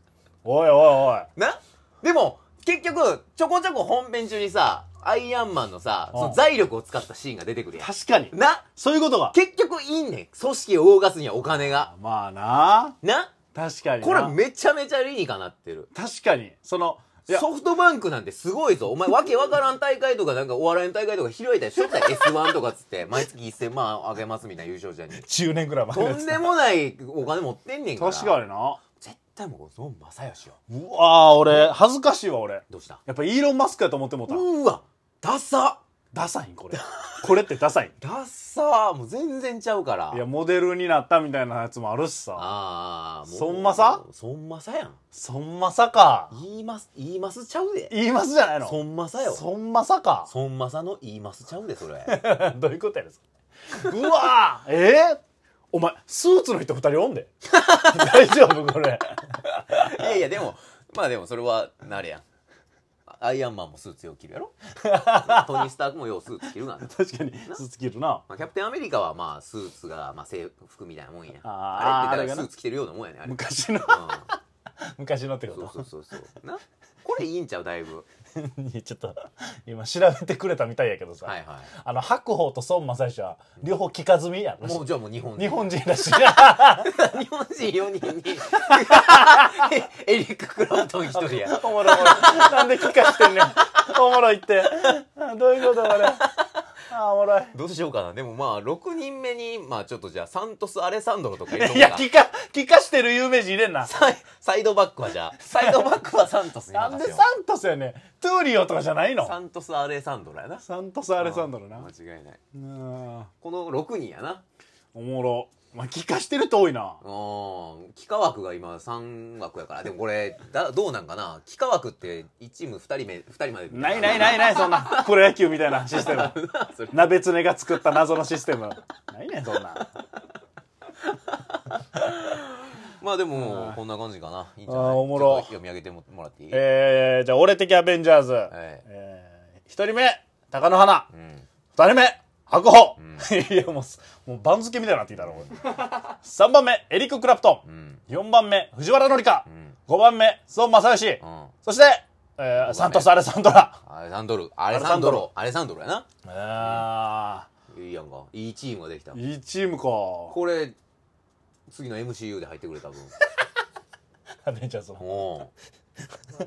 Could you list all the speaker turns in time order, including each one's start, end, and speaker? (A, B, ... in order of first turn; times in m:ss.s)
0:00.4-0:01.3 A
0:01.4-0:08.7 B
0:06.1-0:06.4 A
0:07.8-0:09.4 A
0:09.3-0:11.9 B
0:11.8-0:13.0 A
0:13.0-0:13.3 B
0:13.5-0:14.4 A
0:14.0-0:15.9 B
0:15.9-0:17.5 A
0:17.3-0:25.2 B
0:25.1-0:26.5 A
0:25.9-0:28.4 B
0:28.0-0:28.8 A
0:29.0-0:30.6 B
0:30.7-0:34.4 A
0:32.7-0:33.0 B
0:34.3-0:35.8 B
0:36.1-0:37.9 A
0:36.7-0:37.4 B
0:38.0-0:40.2 B
0:40.1-0:42.5 A
0:42.4-0:45.0 B
0:43.3-0:44.0 A
0:45.1-0:46.3 A
0:46.3-0:47.9 B
0:47.9-0:50.3 A
0:48.6-0:49.4 B
0:50.3-0:52.2 B
0:52.1-0:53.2 A
0:53.7-0:55.2 A
0:55.7-0:57.3 A
0:57.5-0:58.3 B
0:57.9-0:59.9 A
0:59.6-1:02.2 B
1:03.1-1:04.5 B
1:04.8-1:05.7 A
1:05.1-1:07.0 B
1:06.8-1:08.2 A
1:08.3-1:14.3 B
1:11.4-1:12.5 A
1:13.2-1:14.4 A
1:15.0-1:15.9 A
1:15.5-1:18.1 B
1:18.4-1:26.9 A
1:21.2-1:21.7 B
1:24.6-1:33.5 B
1:28.6-1:29.6 A
1:31.2-1:36.2 A
1:35.7-1:36.5 B
1:36.9-1:37.5 A
1:37.5-1:42.1 B
1:41.5-1:43.9 A
1:43.8-1:47.2 B
1:45.4-1:45.9 A
1:46.7-1:49.4 A
1:49.2-1:50.6 B
1:50.6-1:51.9 A
1:51.2-1:52.4 B
1:52.6-1:53.3 A
1:53.4-1:54.4 B
1:54.9-1:57.0 A
1:57.0-2:05.2 B
2:03.7-2:06.4 A
2:05.7-2:07.2 B
2:06.9-2:09.9 A
2:11.5-2:16.6 B
2:13.4-2:13.8 A
2:14.7-2:15.5 A
2:16.5-2:21.1 A
2:18.5-2:18.8 B
2:21.1-2:21.4 B
2:21.8-2:33.8 A
2:23.0-2:23.3 B
2:25.2-2:25.5 B
2:27.6-2:28.0 B
2:29.5-2:29.8 B
2:31.2-2:31.5 B
2:32.6-2:33.3 B
2:33.8-2:36.1 B
2:34.7-2:35.3 A
2:36.2-2:37.5 A
2:36.6-2:36.9 B
2:37.7-2:39.2 B
2:39.1-2:40.4 A
2:40.3-2:40.8 B
2:41.7-2:43.1 B
2:44.4-2:45.0 A
2:45.0-2:45.5 B